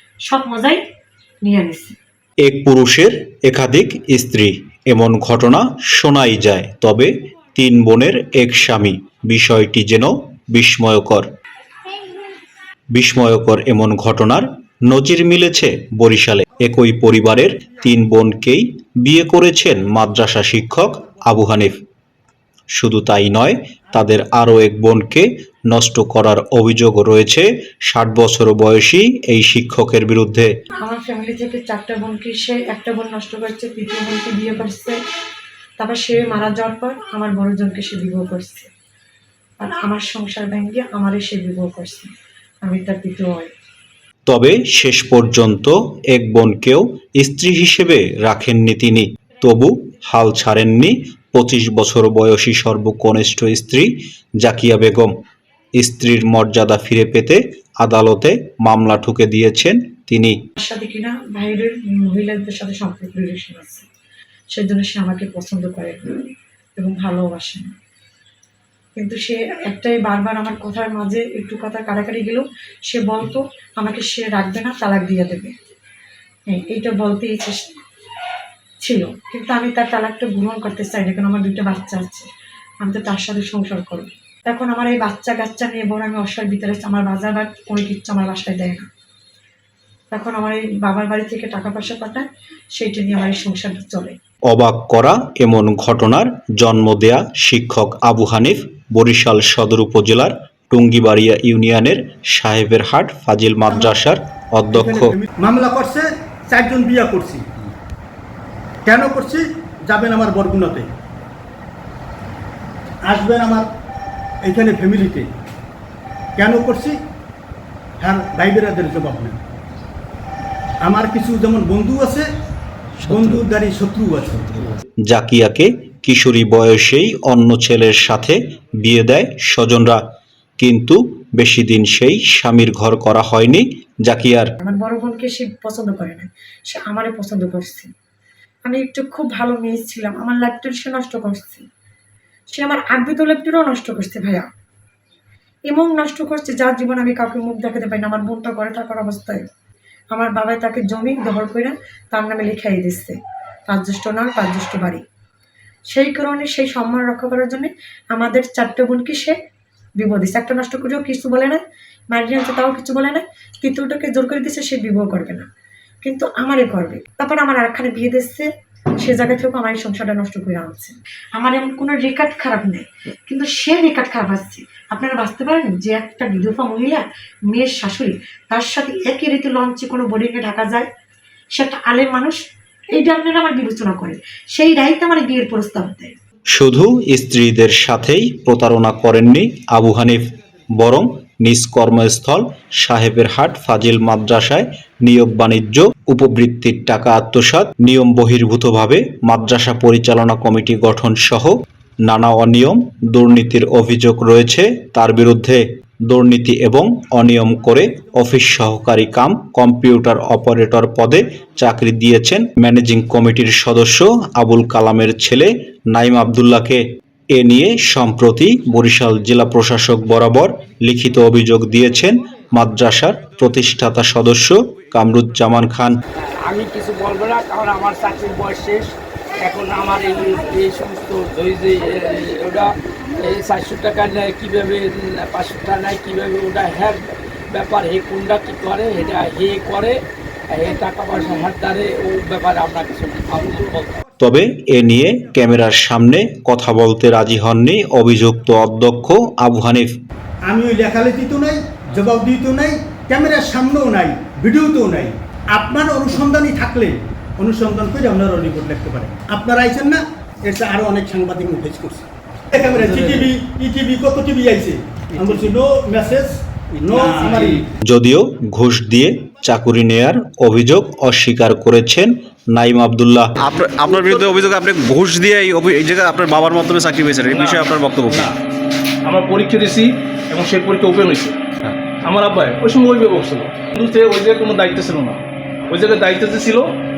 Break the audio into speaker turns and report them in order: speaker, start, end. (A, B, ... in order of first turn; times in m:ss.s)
0:00.3-0:00.8 A
0:01.4-0:02.0 A
0:02.4-0:11.2 B
0:12.9-0:21.8 B
0:22.8-0:30.5 B
0:30.8-0:35.0 A
0:35.8-0:38.7 A
0:39.6-0:43.5 A
0:44.2-0:55.1 B
0:55.8-1:00.4 B
1:00.6-1:03.9 A
1:04.5-1:07.7 A
1:09.0-1:15.5 A
1:16.5-1:17.8 A
1:18.8-1:22.3 A
1:22.8-1:28.9 A
1:30.1-1:34.2 A
1:34.5-1:45.1 B
1:43.7-1:43.9 C
1:44.7-1:47.6 C
1:48.8-1:50.9 C
1:53.1-1:53.7 C
1:54.4-1:55.3 C
1:56.4-1:57.0 C
1:58.0-1:59.4 C
2:00.8-2:02.3 C
2:03.0-2:04.5 C
2:05.1-2:10.0 B
2:10.6-2:14.5 B
2:14.6-2:17.9 A
2:18.6-2:21.6 A
2:22.5-2:24.5 A
2:25.7-2:29.4 A
2:30.1-2:35.0 A
2:35.9-2:39.4 A
2:40.0-2:45.5 A
2:46.0-3:00.9 A
3:01.5-3:02.4 A
3:02.9-3:06.1 A
3:06.5-3:10.2 B
3:10.8-3:21.5 B
3:22.0-3:36.8 B
3:37.3-3:46.0 B
3:46.4-4:00.0 D
4:00.5-4:04.0 D
4:04.2-4:09.9 B
4:10.4-4:27.6 C
4:27.8-4:33.4 B
4:33.4-4:38.3 E
4:37.3-4:38.3 F
4:39.0-4:41.4 F
4:42.0-4:46.7 F